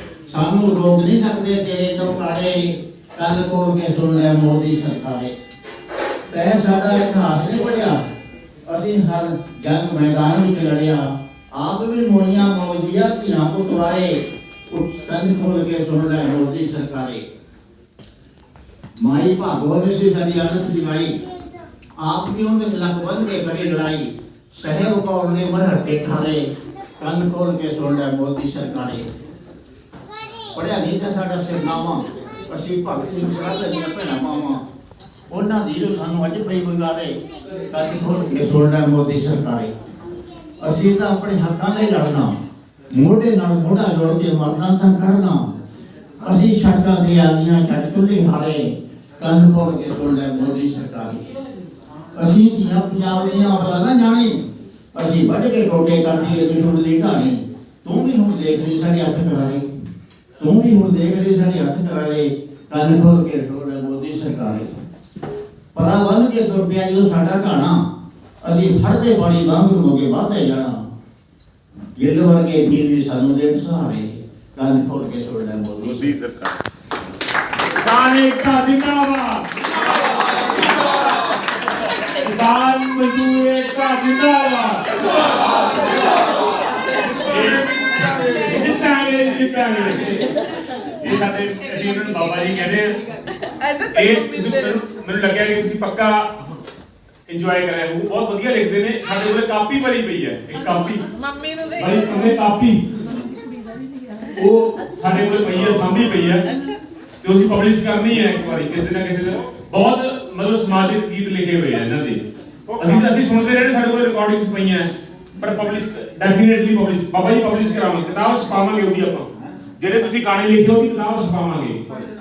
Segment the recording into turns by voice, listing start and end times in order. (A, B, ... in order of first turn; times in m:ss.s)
0:00.3-0:05.3 A
0:06.3-0:08.0 A
0:08.7-0:17.2 A
0:19.0-0:21.2 A
0:22.0-0:26.5 A
0:27.0-0:29.1 A
0:30.5-0:34.6 A
0:35.3-0:37.2 A
0:37.7-0:39.7 A
0:40.6-0:42.4 A
0:42.9-0:45.5 A
0:46.2-0:51.2 A
0:52.1-0:54.4 A
0:54.9-0:59.7 A
1:00.4-1:04.8 A
1:05.7-1:07.8 A
1:08.4-1:10.8 A
1:12.0-1:16.2 A
1:15.9-1:16.5 B
1:17.6-1:19.5 B
1:22.0-1:25.0 B
1:27.1-1:30.3 B
1:31.0-1:33.0 B
1:33.5-1:34.5 C
1:33.8-1:36.5 B
1:37.3-1:41.1 B
1:41.2-1:42.2 C
1:41.8-1:42.8 B
1:44.3-1:46.5 B
1:47.2-1:52.2 B
1:52.8-2:01.8 B